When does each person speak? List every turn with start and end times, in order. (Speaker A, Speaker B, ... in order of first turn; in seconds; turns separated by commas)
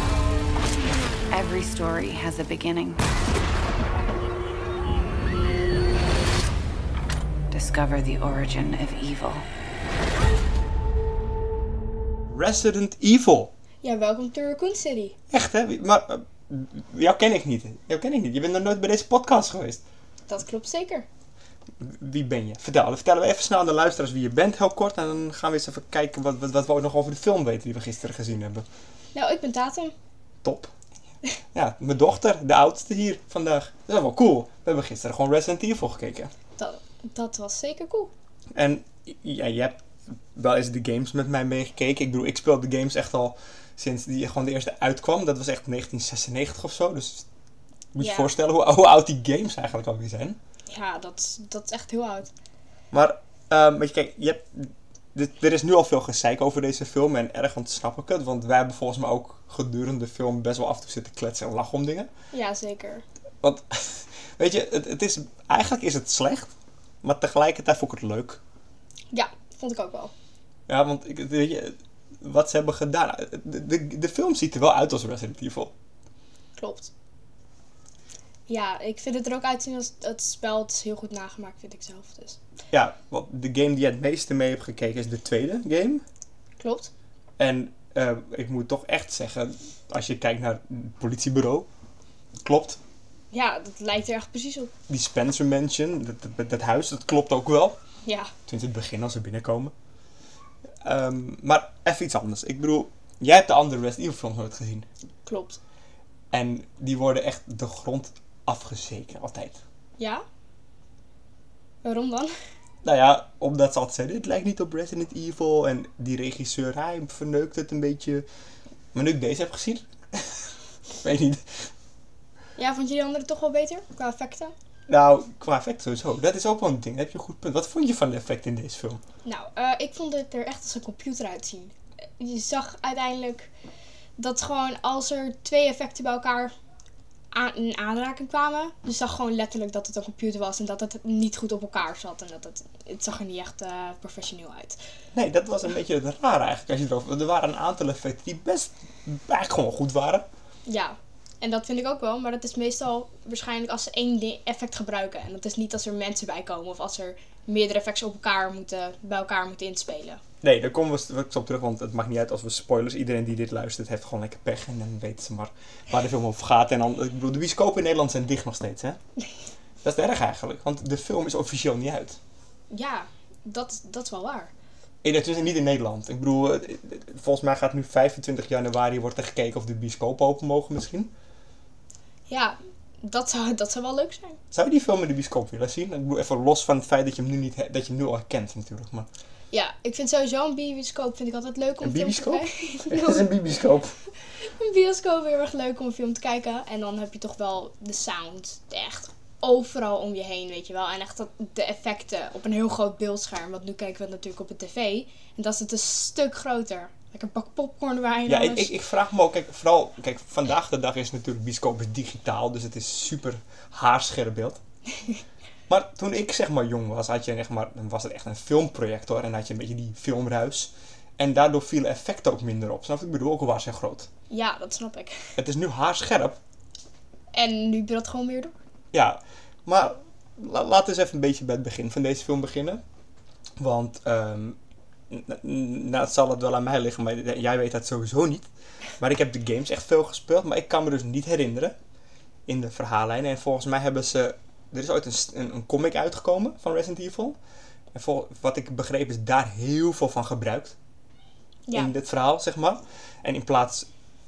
Speaker A: 1.3-3.0, Speaker A: 7.5-9.4, Speaker B: 12.3-13.5, Speaker C: 13.8-15.2, Speaker B: 15.3-19.8, Speaker C: 20.3-21.1, Speaker B: 21.8-28.6, Speaker C: 29.1-29.9, Speaker B: 30.4-30.7, Speaker B: 31.5-36.3, Speaker C: 36.6-38.1, Speaker B: 38.5-39.8, Speaker B: 40.4-47.3, Speaker B: 47.9-50.4, Speaker C: 48.0-48.3, Speaker C: 50.7-52.3, Speaker B: 52.9-62.1, Speaker C: 62.3-63.0, Speaker B: 63.4-66.5, Speaker B: 67.0-68.4, Speaker C: 69.1-70.1, Speaker B: 70.7-75.7, Speaker C: 76.6-76.9, Speaker C: 78.5-82.4, Speaker B: 82.7-86.0, Speaker C: 86.6-86.9, Speaker B: 87.4-91.7, Speaker B: 92.4-92.8, Speaker C: 93.3-94.7, Speaker B: 94.9-97.8, Speaker C: 98.0-98.3, Speaker B: 98.5-99.7, Speaker B: 100.8-104.9, Speaker C: 105.3-105.6, Speaker B: 106.3-109.6, Speaker C: 110.0-110.2, Speaker C: 111.8-112.3, Speaker B: 112.8-118.3, Speaker B: 118.9-120.4, Speaker B: 121.0-121.7, Speaker C: 122.6-124.5, Speaker B: 124.9-129.0, Speaker C: 129.2-133.5, Speaker C: 134.2-136.5, Speaker C: 137.3-144.8, Speaker B: 145.1-150.3, Speaker C: 150.7-160.2, Speaker B: 160.4-169.0, Speaker B: 169.8-172.2, Speaker C: 172.7-174.5, Speaker B: 175.0-181.1, Speaker C: 182.3-184.4, Speaker B: 184.5-189.1, Speaker C: 189.5-193.3, Speaker B: 191.8-193.9, Speaker C: 194.4-208.7, Speaker B: 208.3-214.6, Speaker B: 215.7-224.1, Speaker C: 224.3-225.3, Speaker B: 225.4-226.4, Speaker C: 227.3-228.5, Speaker B: 228.9-232.8, Speaker B: 233.6-234.6, Speaker B: 235.1-238.5, Speaker B: 239.0-241.8, Speaker B: 242.5-247.4, Speaker B: 247.9-250.8, Speaker B: 251.7-253.9